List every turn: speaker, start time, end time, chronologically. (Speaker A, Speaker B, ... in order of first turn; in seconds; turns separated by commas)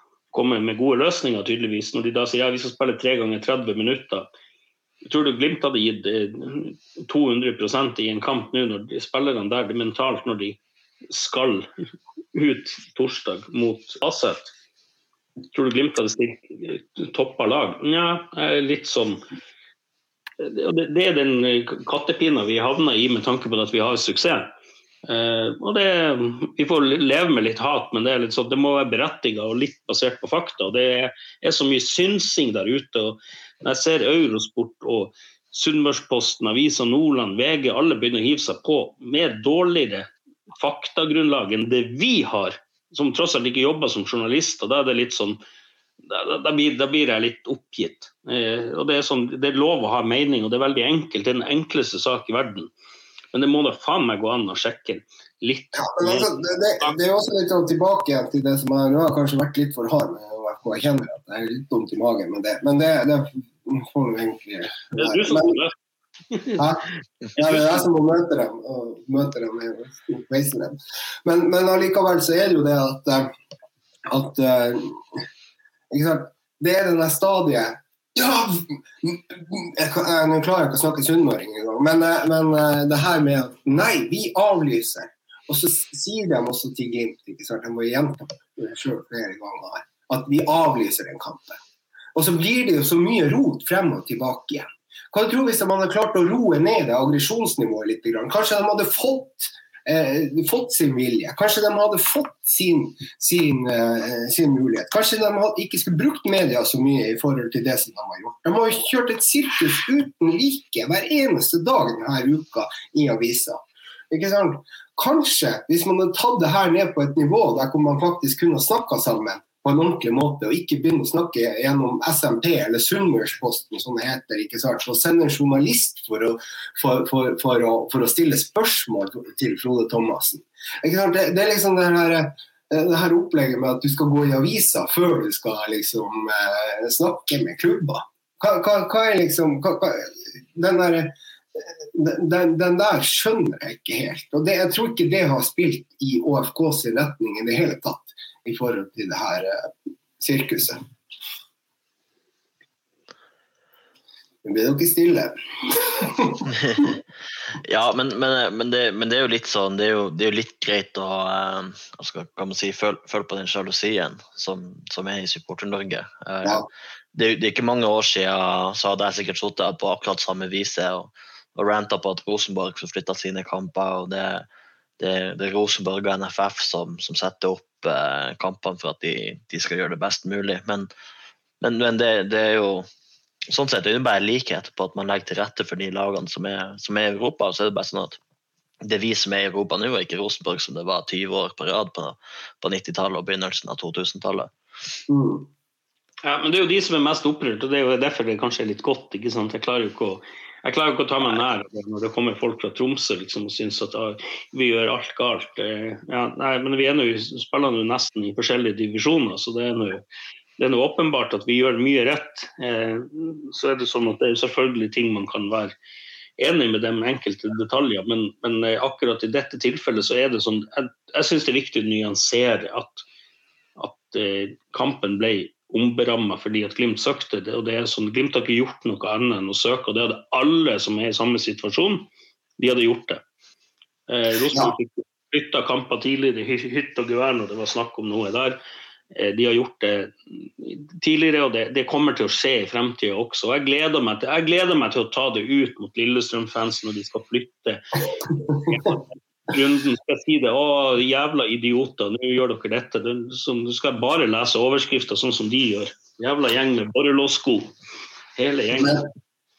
Speaker A: 0.3-4.3, Speaker A: 5.0-11.7, Speaker A: 12.3-14.5, Speaker A: 15.5-19.2, Speaker A: 20.4-24.5, Speaker A: 25.1-45.4, Speaker A: 46.0-52.7, Speaker A: 53.3-57.0, Speaker B: 55.7-65.6, Speaker A: 65.0-65.7, Speaker A: 66.3-66.6, Speaker B: 66.6-73.3, Speaker A: 67.3-67.8, Speaker B: 74.1-75.2, Speaker B: 75.9-91.6, Speaker B: 92.1-150.8, Speaker B: 154.4-156.9, Speaker C: 156.5-156.9, Speaker C: 157.6-174.4, Speaker C: 175.0-180.9, Speaker C: 181.6-182.9, Speaker C: 183.5-188.2, Speaker C: 188.8-194.5, Speaker B: 195.1-195.5, Speaker A: 196.2-210.1, Speaker A: 210.6-215.8, Speaker A: 216.4-223.0, Speaker A: 223.8-233.2, Speaker A: 234.1-238.6, Speaker A: 239.1-257.7, Speaker A: 258.4-259.1, Speaker B: 258.7-259.1